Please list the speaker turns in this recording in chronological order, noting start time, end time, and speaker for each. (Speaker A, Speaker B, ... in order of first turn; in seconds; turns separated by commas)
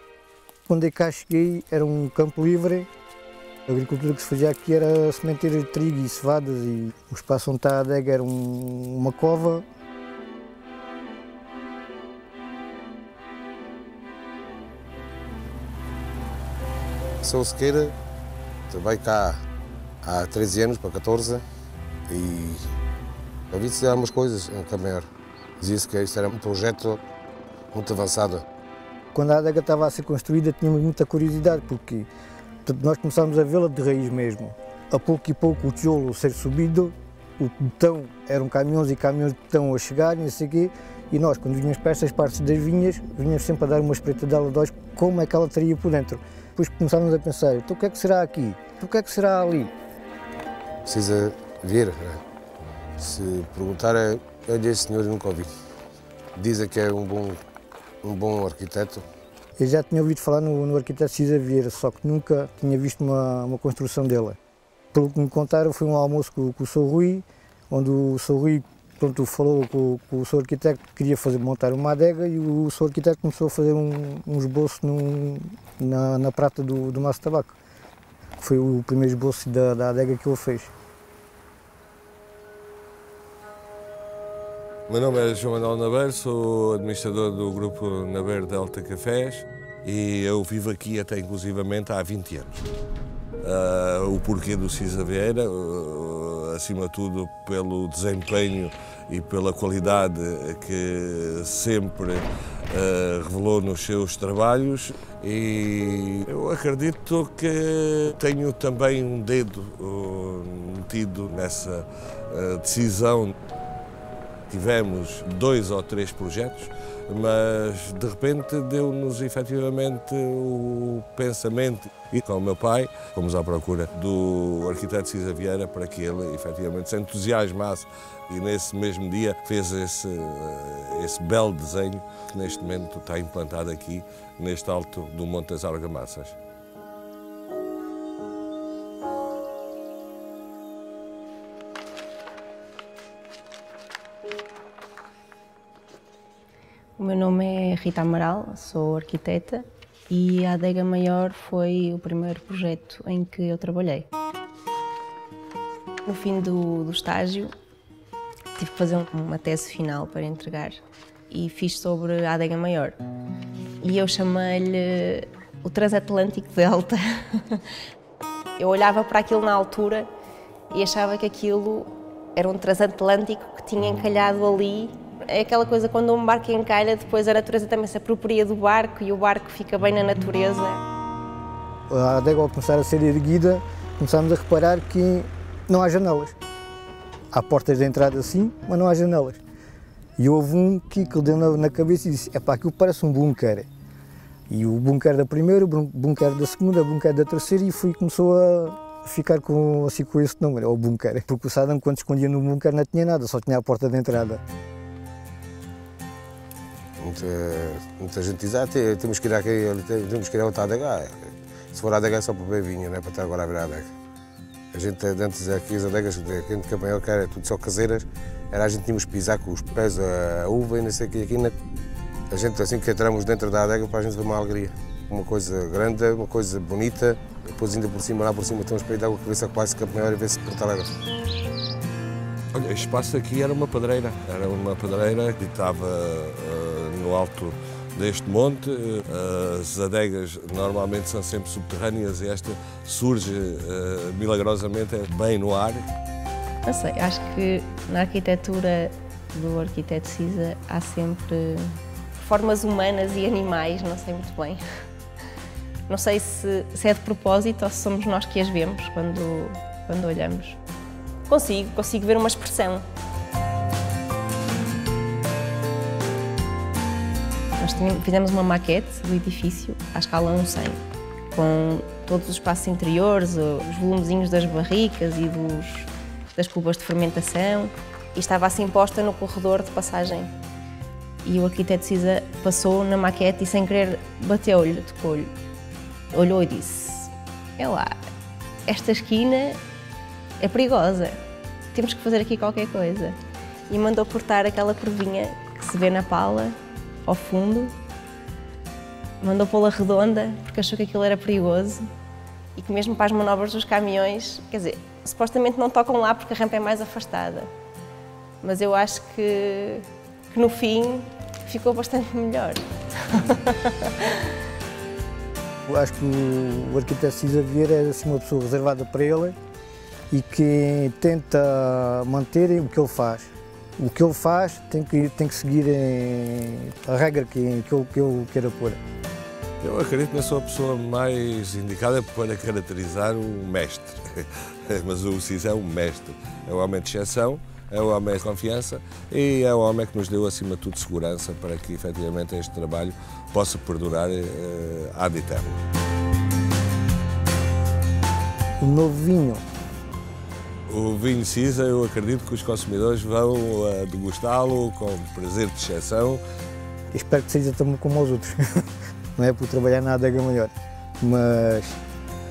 Speaker A: 0.7-2.9, Speaker A: 3.7-9.7, Speaker B: 17.2-17.9, Speaker B: 18.7-19.4, Speaker B: 20.0-21.4, Speaker B: 22.1-22.6, Speaker B: 23.5-25.1, Speaker B: 25.6-27.0, Speaker B: 27.7-28.4, Speaker A: 29.1-32.1, Speaker A: 32.6-49.7, Speaker B: 50.9-52.2, Speaker B: 53.0-55.5, Speaker B: 56.4-57.4, Speaker B: 58.0-59.0, Speaker A: 59.6-64.4, Speaker A: 64.9-77.6, Speaker A: 78.4-80.7, Speaker C: 84.9-92.7, Speaker C: 93.4-113.3, Speaker C: 114.5-136.4, Speaker D: 147.0-154.1, Speaker D: 156.1-157.5, Speaker D: 158.6-160.8, Speaker D: 161.3-163.0, Speaker D: 163.8-167.7, Speaker D: 168.6-170.1, Speaker D: 170.7-180.8, Speaker A: 181.9-186.3, Speaker A: 187.3-189.4, Speaker A: 190.2-193.7, Speaker A: 194.5-204.4, Speaker B: 207.0-213.9, Speaker B: 214.7-221.5, Speaker B: 222.3-230.9, Speaker C: 232.5-245.8, Speaker D: 246.7-254.6, Speaker D: 255.9-260.6, Speaker D: 261.3-262.9, Speaker D: 267.6-270.8, Speaker D: 271.3-280.3, Speaker D: 281.2-285.3, Speaker D: 286.1-287.9, Speaker D: 288.7-289.6, Speaker D: 290.4-291.2, Speaker D: 291.7-293.2, Speaker D: 293.7-297.8, Speaker D: 299.2-301.9, Speaker D: 302.5-307.5, Speaker D: 308.4-314.4, Speaker A: 315.6-319.4, Speaker A: 320.1-328.8, Speaker C: 329.6-345.6, Speaker A: 348.6-349.4, Speaker C: 350.7-356.2, Speaker A: 356.9-358.6, Speaker A: 359.2-361.8